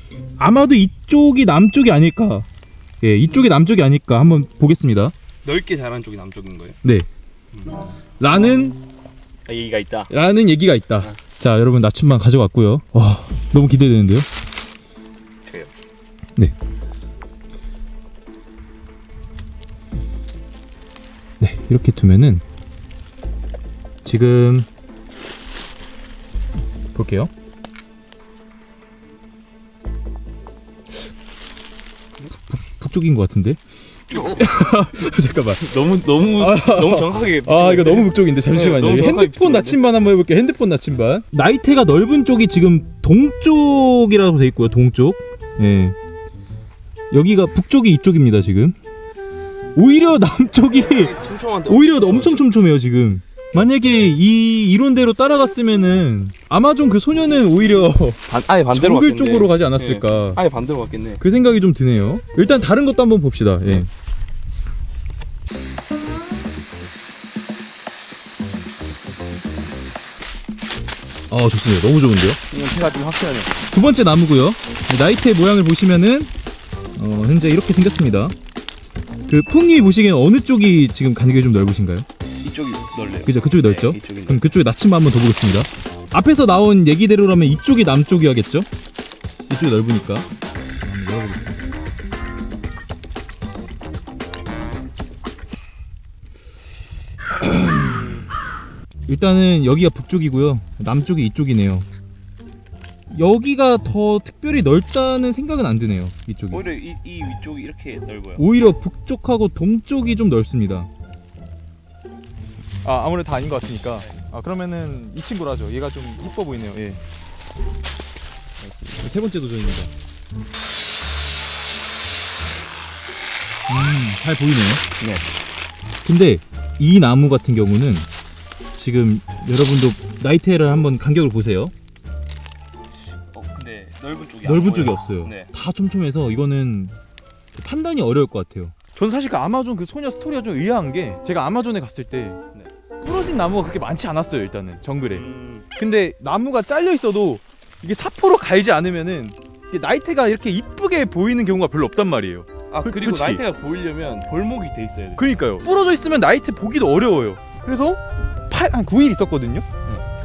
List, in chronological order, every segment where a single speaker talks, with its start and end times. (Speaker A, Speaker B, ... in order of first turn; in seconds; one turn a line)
Speaker A: 0.4-2.5
Speaker A: 3.0-5.1
Speaker B: 5.4-6.8
Speaker A: 8.2-8.8
Speaker B: 9.4-10.1
Speaker A: 10.1-14.3
Speaker B: 15.4-15.7
Speaker A: 21.4-22.4
Speaker A: 24.0-24.7
Speaker A: 26.9-27.3
Speaker A: 32.5-33.6
Speaker A: 34.1-35.6
Speaker B: 35.5-39.8
Speaker A: 36.4-46.0
Speaker A: 47.1-48.8
Speaker A: 49.7-51.1
Speaker B: 50.6-52.5
Speaker A: 51.7-60.4
Speaker B: 58.3-61.2
Speaker A: 61.2-63.9
Speaker A: 71.3-72.4
Speaker B: 72.5-73.5
Speaker A: 73.7-76.3
Speaker A: 77.0-78.3
Speaker A: 79.3-82.0
Speaker B: 82.4-84.5
Speaker A: 83.2-88.7
Speaker A: 89.5-90.3
Speaker A: 90.8-91.6
Speaker A: 97.5-98.1
Speaker A: 99.1-101.8
Speaker A: 103.1-106.7
Speaker B: 106.5-108.7
Speaker A: 108.4-110.9
Speaker A: 112.8-117.0
Speaker A: 118.8-119.9
Speaker A: 123.7-124.8
Speaker B: 125.0-125.2
Speaker A: 126.0-128.1
Speaker A: 128.7-131.7
Speaker B: 133.0-135.5
Speaker A: 134.4-136.9
Speaker A: 137.5-142.4
Speaker A: 143.0-153.4
Speaker B: 145.1-145.7
Speaker B: 152.7-155.2
Speaker A: 155.2-159.6